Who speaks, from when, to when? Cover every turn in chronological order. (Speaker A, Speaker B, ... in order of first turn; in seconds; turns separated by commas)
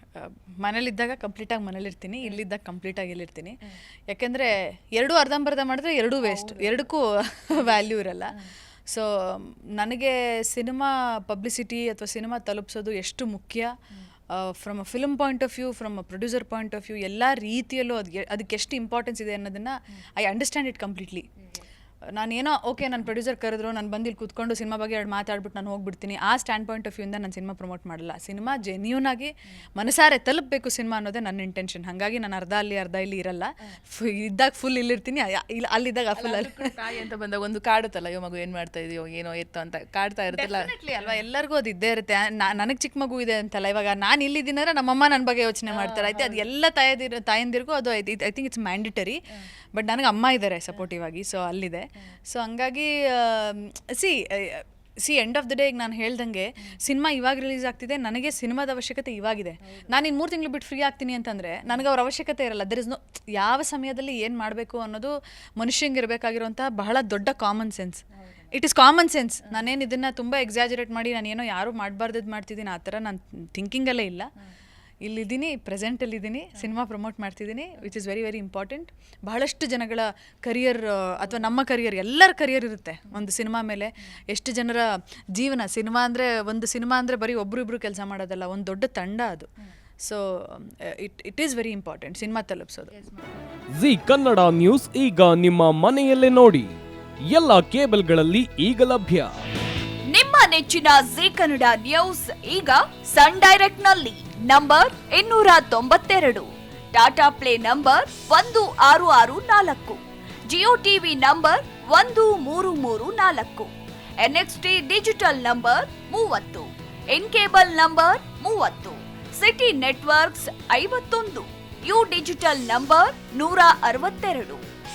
Speaker A: 0.2-3.6, Speaker A: 4.1-8.3, Speaker B: 6.2-6.9, Speaker A: 8.9-13.7, Speaker A: 14.3-21.3, Speaker A: 22.2-36.7, Speaker B: 36.2-40.7, Speaker A: 40.3-49.1, Speaker B: 45.7-46.5, Speaker A: 49.7-74.3, Speaker A: 75.0-84.8, Speaker B: 81.2-81.5, Speaker A: 85.3-89.5, Speaker A: 90.0-92.9, Speaker B: 93.0-93.3, Speaker C: 93.7-96.7, Speaker C: 97.3-99.3, Speaker D: 100.1-113.7, Speaker D: 114.2-124.6